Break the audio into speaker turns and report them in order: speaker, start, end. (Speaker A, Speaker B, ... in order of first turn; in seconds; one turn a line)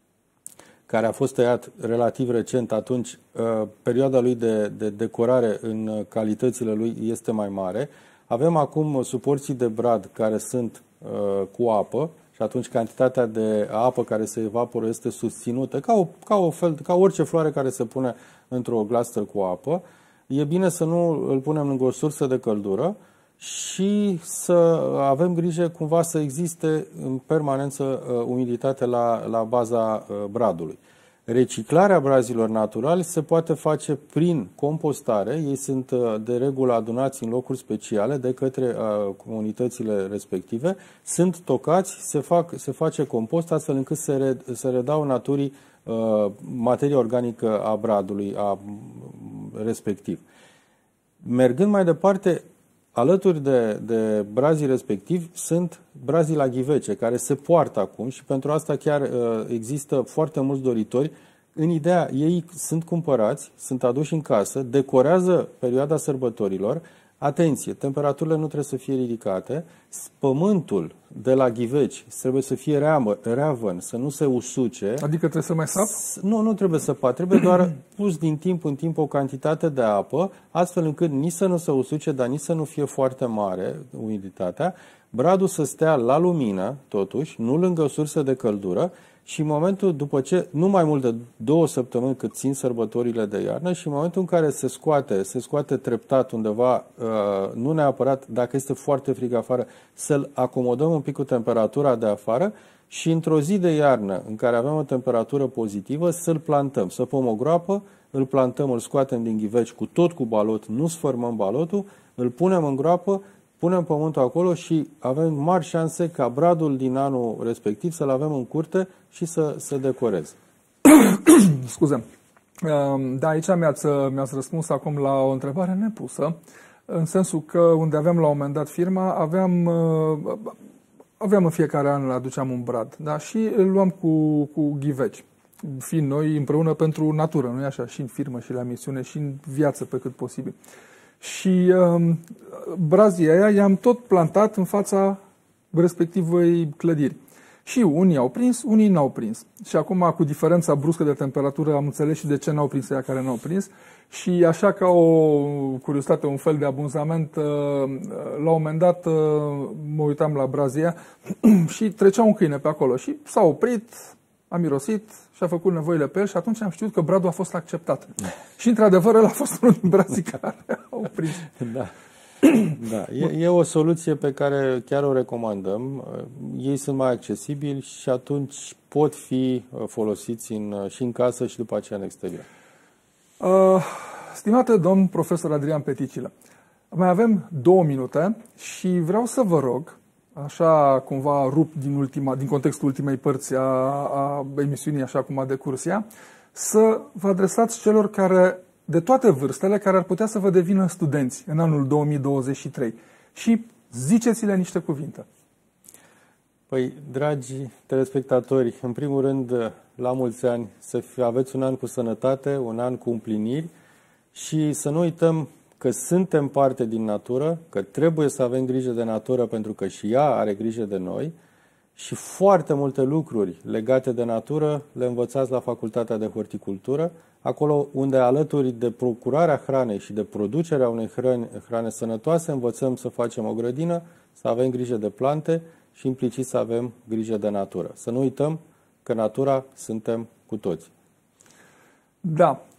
Speaker A: 0.9-50.2
Speaker A: 51.2-52.4
Speaker A: 52.9-75.0
Speaker B: 75.0-75.9
Speaker A: 75.8-120.3
Speaker B: 120.8-122.0
Speaker B: 122.6-126.4
Speaker B: 126.9-130.5
Speaker B: 131.2-140.5
Speaker B: 141.2-145.2
Speaker B: 145.7-171.5
Speaker A: 171.6-171.9
Speaker B: 172.4-172.7
Speaker A: 172.7-182.4
Speaker B: 183.4-186.3
Speaker B: 186.9-205.2
Speaker A: 206.7-213.7
Speaker A: 214.3-221.3
Speaker A: 221.9-240.9
Speaker B: 242.2-242.6